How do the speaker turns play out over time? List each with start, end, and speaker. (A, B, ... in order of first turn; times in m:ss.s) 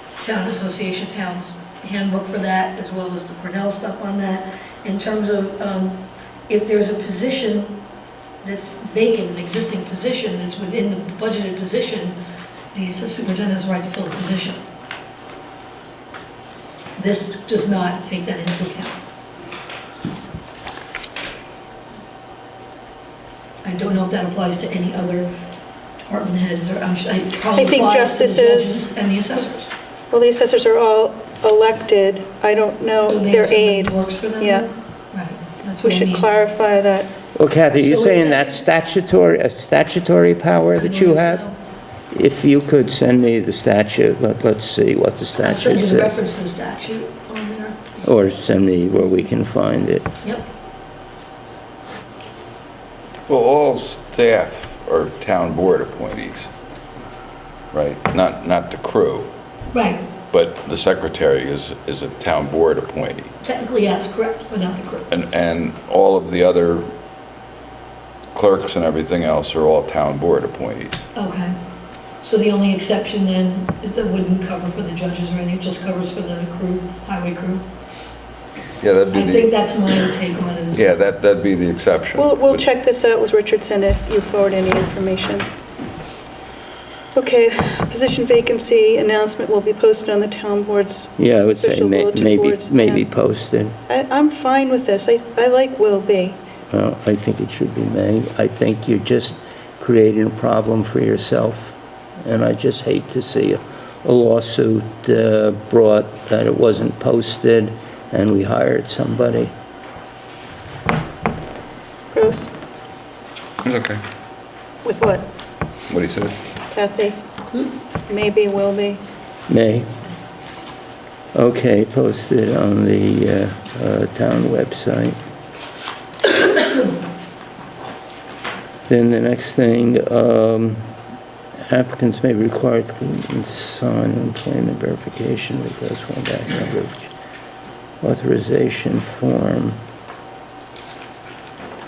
0:00.2-0:07.8 A
0:08.4-0:12.2 A
0:12.7-0:14.6 A
0:17.0-0:19.0 A
0:23.6-0:25.3 A
0:26.0-0:29.7 A
0:27.6-0:28.8 B
0:30.1-0:34.6 B
0:33.1-0:36.3 A
0:35.8-0:37.1 B
0:37.3-0:41.4 C
0:37.7-0:38.6 A
0:40.8-0:41.6 A
0:42.1-0:46.2 C
0:45.4-0:47.8 A
0:48.0-0:50.1 C
0:53.3-0:56.5 D
0:57.7-0:59.3 D
0:59.7-1:00.0 A
1:00.3-1:03.3 D
1:03.4-1:05.1 A
1:05.1-1:06.9 D
1:08.3-1:11.0 D
1:11.2-1:11.5 A
1:12.2-1:17.7 A
1:18.8-1:19.5 D
1:19.1-1:21.0 A
1:20.7-1:22.6 D
1:22.1-1:25.4 B
1:27.1-1:33.0 B
1:31.2-1:33.7 C
1:33.9-1:36.4 B
1:36.7-1:49.5 C
1:52.1-1:52.5 B
1:53.6-1:54.0 D
1:54.8-1:55.2 B
1:55.9-1:56.3 D
1:56.7-1:57.2 B
1:58.1-1:59.0 B
1:59.5-1:59.9 C
2:01.3-2:05.2 C
2:08.9-2:10.8 C
2:11.7-2:17.1 C
2:18.0-2:19.8 C